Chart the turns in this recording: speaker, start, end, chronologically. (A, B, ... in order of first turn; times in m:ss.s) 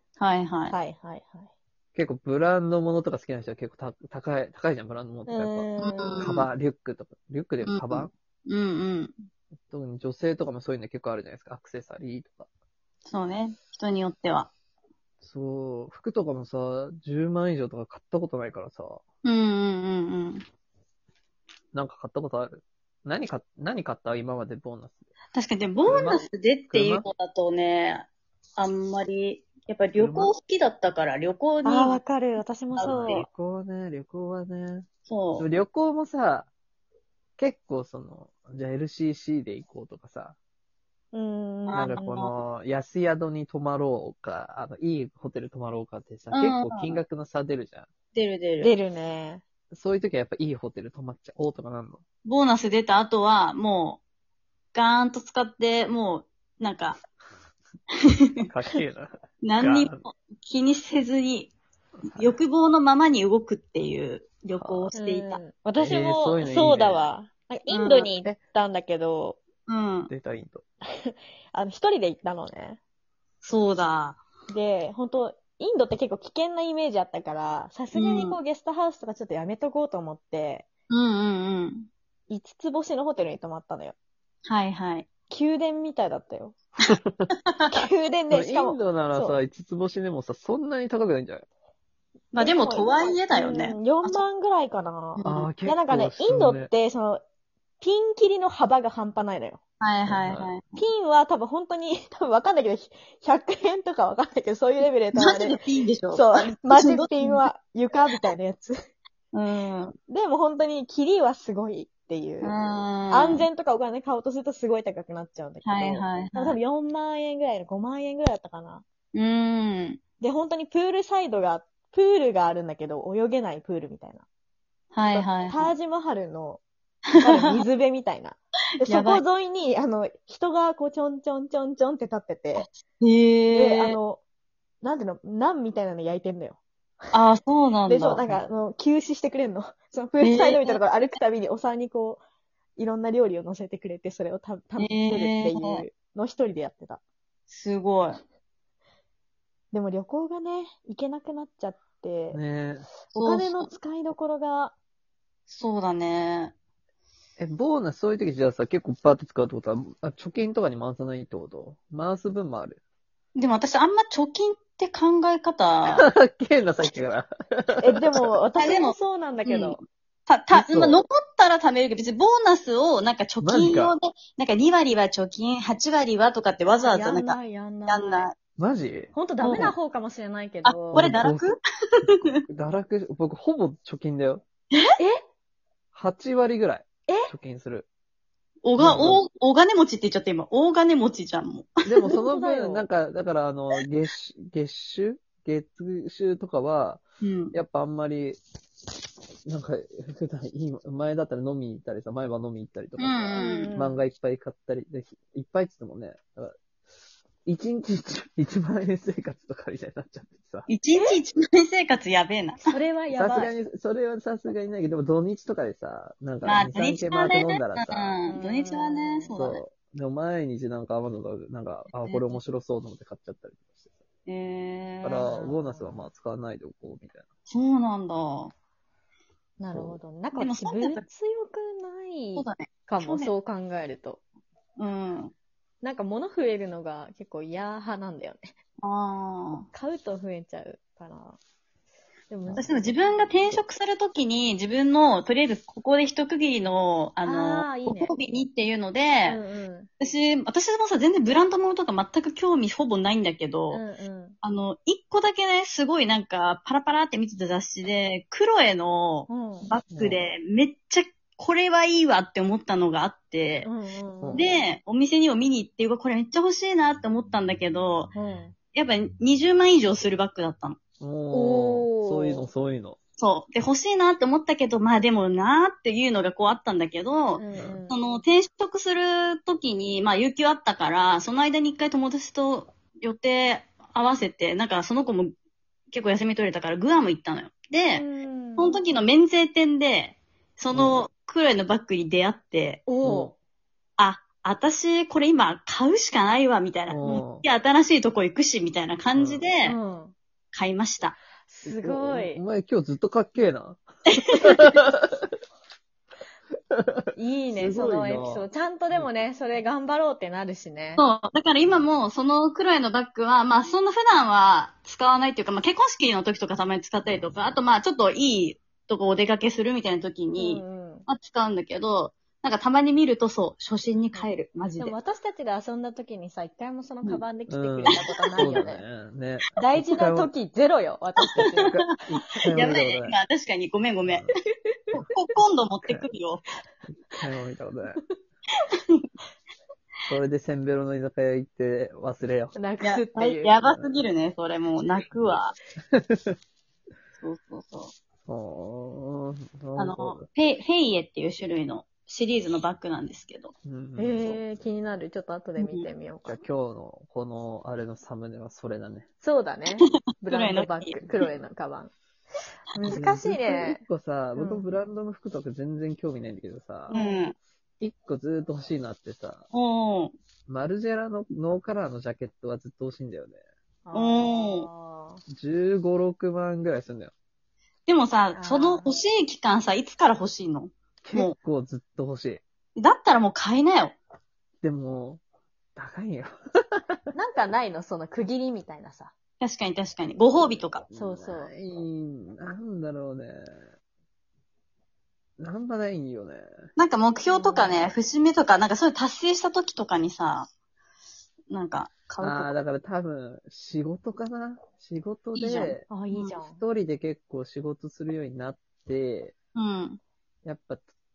0:00.2-0:00.8 A
0:00.7-0:01.5 B
0:01.9-0:08.1 C
0:05.3-0:06.4 B
0:05.8-0:06.5 A
0:07.6-0:09.1 A
0:09.7-0:12.5 C
0:13.1-0:14.5 A
0:15.2-0:19.0 C
0:19.2-0:20.4 A
0:21.7-0:25.0 C
0:25.3-0:32.0 A
0:25.8-0:27.1 C
0:30.0-0:30.3 C
0:31.6-0:33.2 B
0:32.7-0:33.3 A
0:32.8-0:36.5 C
0:35.1-0:35.5 A
0:37.4-0:40.4 C
0:41.1-0:42.3 B
0:41.7-0:42.0 A
0:41.7-0:47.9 C
0:46.3-0:47.0 A
0:48.1-0:48.7 A
0:48.6-0:49.4 B
0:49.7-0:52.0 C
0:52.2-0:54.0 A
0:54.7-0:57.0 A
0:58.4-1:00.0 C
0:59.4-1:01.5 A
1:02.0-1:02.3 C
1:02.1-1:05.4 A
1:04.6-1:04.9 C
1:05.0-1:09.4 B
1:05.8-1:07.1 C
1:07.7-1:08.2 A
1:09.7-1:10.1 A
1:10.1-1:10.6 C
1:11.0-1:12.8 B
1:13.4-1:14.2 A
1:14.5-1:20.7 B
1:17.9-1:18.4 A
1:20.9-1:21.9 A
1:22.3-1:24.0 B
1:24.4-1:25.1 A
1:25.3-1:26.6 B
1:26.8-1:27.3 C
1:27.3-1:27.7 A
1:27.7-1:29.4 B
1:28.3-1:31.4 C
1:32.3-1:37.2 B
1:32.3-1:34.2 A
1:35.2-1:35.5 A
1:35.2-1:36.7 C
1:37.8-1:39.6 B
1:39.8-1:40.7 A
1:40.0-1:40.5 C
1:40.8-1:45.6 B
1:45.2-1:47.4 A
1:46.1-1:48.7 B
1:49.3-1:49.9 A
1:50.1-1:52.5 B
1:52.4-1:53.4 A
1:53.1-1:58.8 B
1:55.6-1:56.6 A
1:59.1-2:00.0 A
2:00.2-2:04.2 B
2:04.9-2:05.7 A
2:05.1-2:06.6 B
2:07.1-2:12.7 B
2:07.2-2:07.5 A
2:08.8-2:09.2 A
2:12.5-2:14.0 A
2:13.5-2:14.2 B
2:14.8-2:16.6 B
2:17.1-2:18.2 A
2:17.9-2:22.2 B
2:20.2-2:20.8 A
2:22.8-2:27.0 B
2:24.8-2:25.8 A
2:27.5-2:28.2 A
2:29.7-2:32.4 B
2:32.3-2:32.9 C
2:33.1-2:34.7 B
2:33.1-2:33.7 A
2:35.5-2:36.5 A
2:37.4-2:42.8 C
2:43.3-2:46.1 A
2:45.9-2:48.3 C
2:47.8-2:49.8 B
2:48.6-2:58.3 A
2:50.5-2:51.0 C
2:53.4-2:53.9 C
2:56.8-2:58.3 B
2:58.6-2:59.7 C
2:59.1-3:01.0 B
2:59.4-2:59.7 A
3:00.6-3:02.4 A
3:00.9-3:01.5 C
3:02.0-3:04.4 C
3:05.9-3:07.9 C
3:08.6-3:12.2 A
3:08.8-3:09.2 C
3:11.8-3:17.0 C
3:12.0-3:12.8 B
3:17.2-3:17.6 A
3:17.5-3:18.4 C
3:19.4-3:26.6 C
3:23.0-3:23.7 A
3:23.3-3:24.0 B
3:27.4-3:30.7 C
3:30.7-3:32.6 A
3:30.9-3:31.2 B
3:32.6-3:33.5 B
3:33.1-3:38.2 C
3:36.4-3:39.6 A
3:38.3-3:39.3 B
3:39.3-3:43.9 C
3:42.0-3:42.3 B
3:44.2-3:45.2 A
3:45.0-3:47.2 C
3:45.1-3:46.0 B
3:47.5-3:48.5 A
3:49.6-3:54.2 B
3:49.7-3:50.0 C
3:50.3-3:51.0 A
3:52.3-3:53.3 A
3:54.8-3:55.3 A
3:55.8-3:58.5 B
3:58.8-3:59.7 A
3:59.7-4:01.4 B
4:02.3-4:03.6 B
4:02.5-4:09.4 A
4:07.2-4:08.1 B
4:09.2-4:09.9 B
4:10.0-4:13.8 A
4:13.7-4:14.4 B
4:14.4-4:23.7 A
4:19.3-4:19.8 B
4:19.9-4:20.2 C
4:23.6-4:24.6 B
4:24.2-4:24.5 C
4:24.3-4:28.1 A
4:28.1-4:28.5 B
4:28.7-4:30.8 A
4:31.0-4:33.0 C
4:31.3-4:32.5 B
4:33.2-4:45.3 A
4:37.4-4:38.0 B
4:45.9-4:48.0 A
4:47.9-4:48.8 B
4:48.6-4:52.9 A
4:50.7-4:51.0 C
4:52.9-4:53.3 B
4:53.0-4:53.3 C
4:54.0-4:59.8 A
4:56.9-4:57.4 C
4:59.1-4:59.5 C
4:59.6-5:00.1 B
5:00.5-5:01.2 A
5:01.4-5:02.4 B
5:01.6-5:05.3 C
5:04.1-5:04.6 A
5:07.2-5:11.0 B
5:07.5-5:09.1 C
5:11.0-5:24.9 A
5:20.4-5:21.1 B
5:24.1-5:28.8 B
5:27.5-5:30.3 C
5:27.8-5:28.6 A
5:29.6-5:31.8 B
5:31.4-5:31.9 A
5:31.5-5:33.2 C
5:32.5-5:34.3 A
5:34.0-5:34.3 C
5:34.9-5:36.4 A
5:37.1-5:38.0 C
5:40.1-5:42.6 C
5:42.5-5:43.6 B
5:42.8-5:45.6 A
5:43.6-5:44.0 C
5:45.9-5:46.3 C
5:47.2-5:47.9 A
5:48.3-5:50.2 C
5:49.7-5:53.5 A
5:53.6-5:54.4 C
5:54.0-5:56.4 B
5:55.6-5:55.9 A
5:56.2-5:59.1 C
5:59.2-6:01.9 B
5:59.8-6:01.1 A
6:02.7-6:03.8 B
6:02.8-6:06.9 C
6:04.4-6:04.6 B
6:06.9-6:07.3 A
6:06.9-6:07.3 B
6:07.8-6:09.4 C
6:09.5-6:10.1 A
6:10.5-6:13.4 C
6:13.8-6:15.2 B
6:13.9-6:14.7 A
6:15.3-6:17.1 C
6:17.9-6:21.3 A
6:18.3-6:18.9 B
6:21.0-6:22.4 C
6:22.8-6:24.0 A
6:24.6-6:25.2 C
6:25.8-6:26.8 C
6:27.1-6:29.1 B
6:29.4-6:30.8 A
6:30.4-6:33.5 C
6:30.9-6:31.5 B
6:35.4-6:36.4 C
6:36.8-6:40.5 A
6:37.3-6:37.9 B
6:41.5-6:42.5 A
6:42.2-6:49.3 C
6:45.3-6:46.4 A
6:45.9-6:46.6 B
6:49.5-6:50.0 A
6:50.4-6:50.8 C